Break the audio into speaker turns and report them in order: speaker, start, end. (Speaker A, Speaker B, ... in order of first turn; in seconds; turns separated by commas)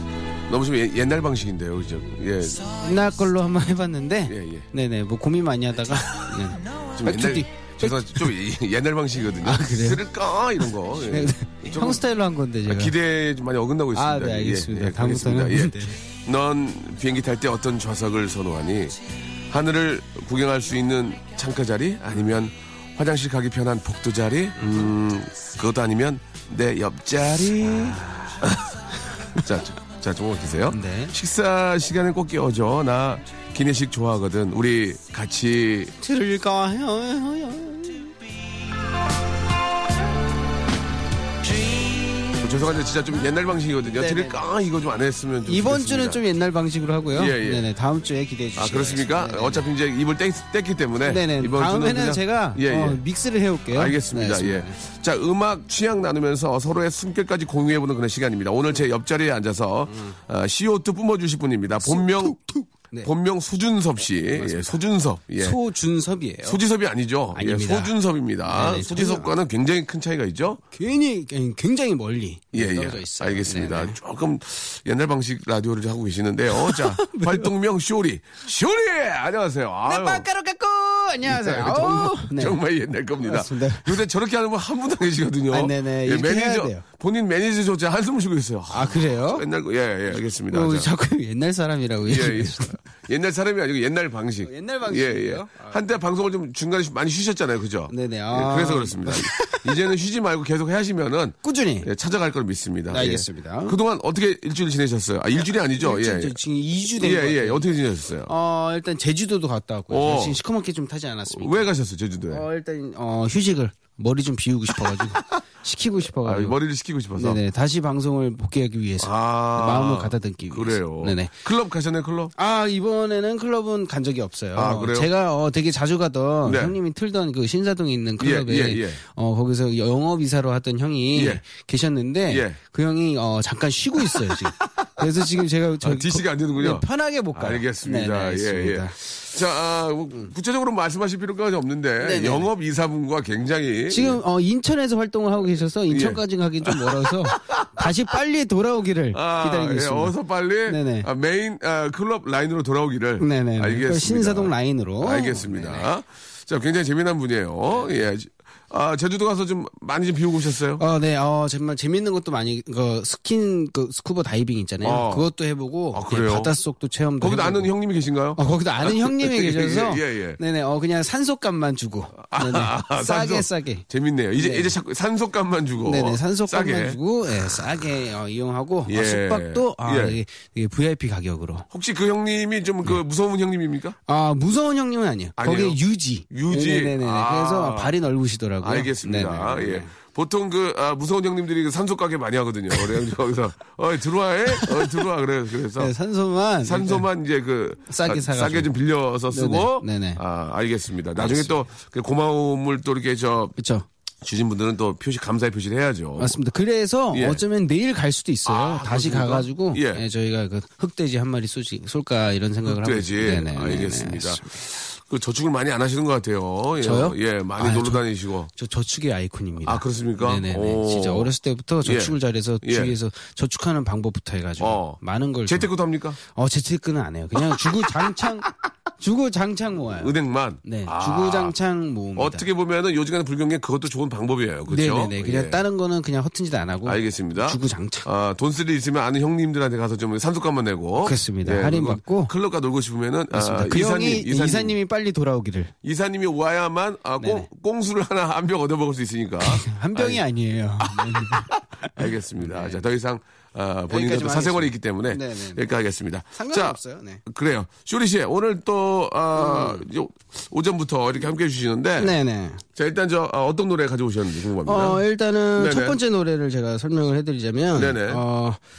Speaker A: 0.5-2.7, Speaker B: 2.7-8.3, Speaker A: 4.3-4.7, Speaker A: 6.9-12.1, Speaker B: 9.4-10.0, Speaker B: 11.0-12.9, Speaker A: 12.7-18.9, Speaker B: 13.9-16.0, Speaker A: 19.5-28.7, Speaker B: 24.6-24.9, Speaker B: 27.6-29.5, Speaker A: 29.4-35.9, Speaker B: 30.7-31.1, Speaker B: 36.0-38.2, Speaker A: 42.4-46.2, Speaker B: 44.0-44.4, Speaker B: 45.4-49.6, Speaker A: 47.1-47.7, Speaker A: 48.5-53.0, Speaker B: 51.0-54.8, Speaker A: 53.7-62.4, Speaker B: 59.9-60.1, Speaker B: 61.7-63.1, Speaker A: 63.0-65.6, Speaker B: 64.4-64.8, Speaker B: 65.4-66.6, Speaker A: 66.4-70.6, Speaker B: 67.3-69.3, Speaker B: 70.7-74.0, Speaker A: 72.5-80.2, Speaker B: 76.5-77.5, Speaker B: 79.8-82.6, Speaker A: 81.2-90.9, Speaker B: 83.2-84.0, Speaker B: 85.5-86.8, Speaker B: 88.7-89.4, Speaker B: 90.5-92.8, Speaker A: 92.0-106.4, Speaker B: 94.4-95.8, Speaker B: 97.9-99.8, Speaker B: 101.4-101.9, Speaker B: 102.9-103.8, Speaker B: 105.4-107.7, Speaker A: 107.0-108.3, Speaker B: 108.3-111.7, Speaker A: 109.9-110.4, Speaker A: 111.3-112.5, Speaker B: 112.3-116.6, Speaker A: 114.8-115.4, Speaker A: 116.1-117.4, Speaker B: 117.2-121.3, Speaker A: 119.0-122.3, Speaker B: 122.3-139.0, Speaker A: 124.5-125.1, Speaker A: 126.4-126.8, Speaker A: 128.2-129.0, Speaker A: 131.1-131.4, Speaker A: 132.3-132.6, Speaker A: 134.0-135.2, Speaker A: 135.8-144.2, Speaker B: 142.0-142.5, Speaker B: 143.9-150.1, Speaker A: 145.9-147.9, Speaker A: 149.1-160.8, Speaker B: 150.7-151.1, Speaker B: 153.2-155.9, Speaker B: 160.8-167.7, Speaker A: 164.8-165.3, Speaker A: 165.9-166.5, Speaker A: 167.2-170.4, Speaker B: 168.3-173.8, Speaker A: 172.2-177.0, Speaker B: 174.4-174.7, Speaker B: 175.8-181.7, Speaker A: 178.8-180.2, Speaker A: 181.7-184.0, Speaker B: 184.1-189.9, Speaker A: 185.4-185.8, Speaker A: 186.3-188.0, Speaker A: 188.6-195.9, Speaker B: 194.5-195.0, Speaker B: 195.8-197.1, Speaker A: 196.6-203.5, Speaker B: 197.9-198.7, Speaker B: 199.3-200.2, Speaker B: 201.2-201.6, Speaker B: 203.6-203.8, Speaker A: 204.2-206.4, Speaker B: 206.2-214.5, Speaker A: 207.1-207.4, Speaker A: 208.4-210.0, Speaker A: 212.7-218.5, Speaker B: 216.8-232.5, Speaker A: 219.6-221.3, Speaker A: 221.8-222.9, Speaker A: 224.6-226.2, Speaker A: 227.4-228.5, Speaker A: 229.8-231.5, Speaker A: 232.2-235.6, Speaker B: 234.7-238.1, Speaker A: 236.8-244.8, Speaker B: 241.0-242.3, Speaker B: 243.3-245.7, Speaker A: 245.8-250.2, Speaker B: 247.2-247.5, Speaker B: 249.4-252.8, Speaker A: 250.8-262.1, Speaker B: 253.9-255.6, Speaker B: 256.3-257.2, Speaker B: 259.4-259.9, Speaker B: 262.0-262.6, Speaker A: 262.8-266.0, Speaker B: 264.6-268.6, Speaker A: 267.7-268.2